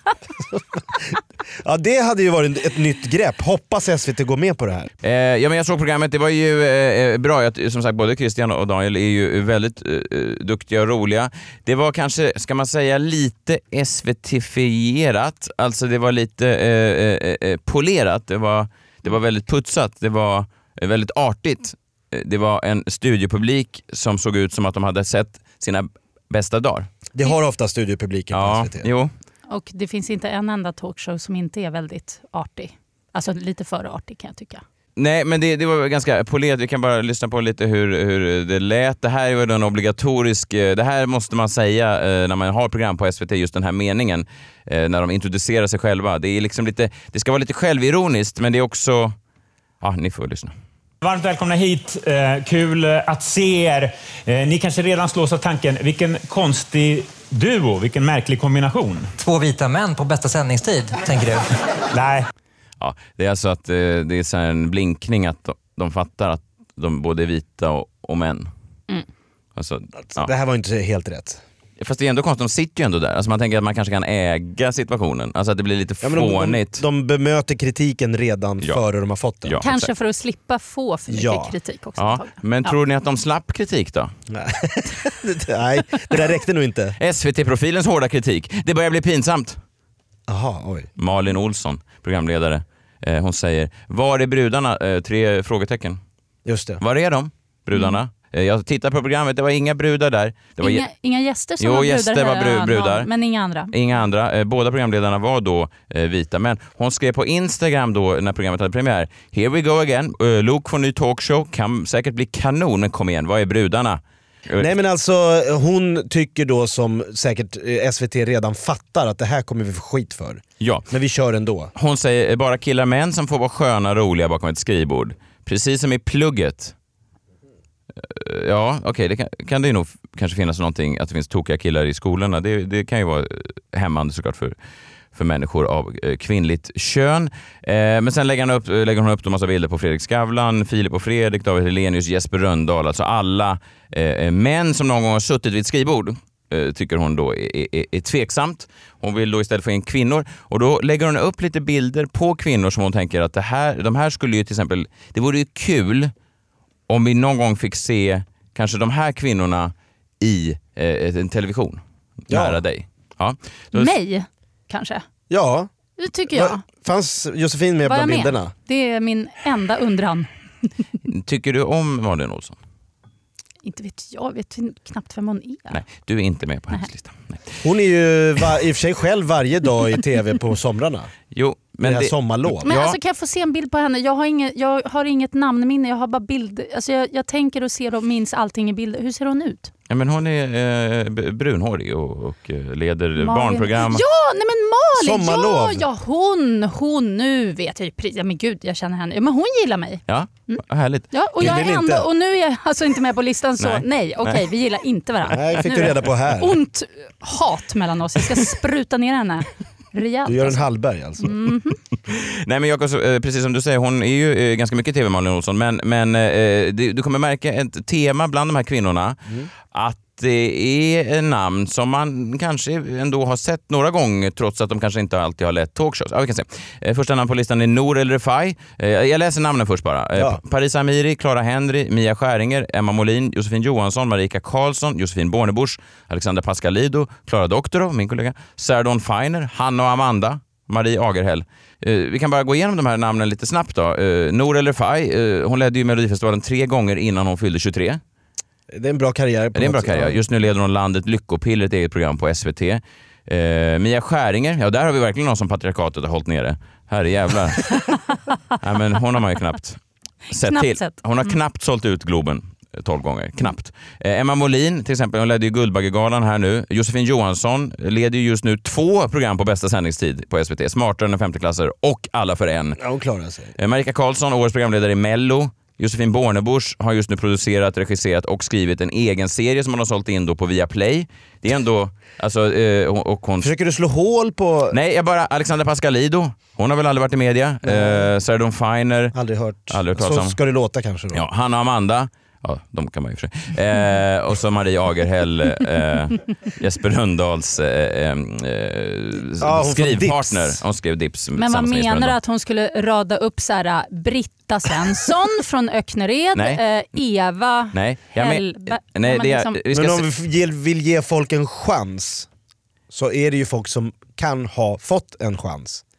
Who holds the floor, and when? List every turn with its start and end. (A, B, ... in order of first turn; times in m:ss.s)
0:00.4-0:04.9 A
0:05.0-0:26.9 B
0:27.1-0:28.8 A
0:28.3-0:29.1 B
0:29.5-0:34.6 C
0:35.0-0:49.1 B
0:49.8-0:50.5 B
0:51.0-0:59.1 D
0:59.2-1:01.5 E
1:01.9-1:02.3 D
1:02.8-1:08.5 B
1:09.6-1:10.3 B
1:10.1-1:11.4 A
1:11.8-1:16.8 B
1:16.0-1:19.6 A
1:19.4-1:19.9 B
1:19.6-1:22.8 C
1:21.1-1:21.5 A
1:22.0-1:24.1 B
1:24.3-1:26.9 A
1:27.0-1:29.6 B
1:30.3-1:30.9 A
1:31.0-1:36.0 B
1:36.4-1:36.8 A
1:36.8-1:40.8 B
1:40.6-1:43.7 C
1:41.6-1:43.1 B
1:43.7-1:54.7 B
1:54.6-2:01.7 A
2:00.6-2:00.9 B
2:01.7-2:06.7 B
2:08.0-2:14.5 B
2:15.1-2:36.1 B
2:36.9-2:43.9 B
2:42.3-2:42.6 A
2:43.7-2:45.0 C
2:45.3-2:45.7 A
2:46.0-2:46.6 C
2:46.3-2:48.5 A
2:47.8-2:50.3 C
2:51.1-2:52.6 B
2:53.6-2:55.8 C
2:55.7-2:57.6 B
2:57.6-3:01.1 A
3:01.3-3:03.0 B
3:01.8-3:02.7 A
3:02.6-3:09.7 C
3:09.9-3:14.0 B
3:13.2-3:30.7 C
3:15.0-3:15.8 A
3:20.1-3:21.1 B
3:21.4-3:22.1 A
3:23.6-3:24.4 B
3:25.3-3:26.6 A
3:30.2-3:31.3 A
3:31.2-3:31.8 C
3:32.1-3:39.2 B
3:39.7-4:08.0 B
4:08.7-4:10.2 A
4:09.5-4:17.8 B
4:18.6-4:19.8 B
4:20.3-4:32.8 B
4:20.4-4:20.9 C
4:32.8-4:33.5 A
4:33.6-4:43.5 B
4:43.4-4:44.8 A
4:44.7-4:49.2 B
4:47.6-4:48.1 A
4:49.1-4:51.2 A
4:49.7-4:50.4 B
4:51.1-5:02.2 B
4:59.4-5:00.6 A
5:01.4-5:09.6 C
5:06.3-5:06.6 B
5:07.7-5:10.1 B
5:09.7-5:12.3 A
5:12.9-5:15.8 A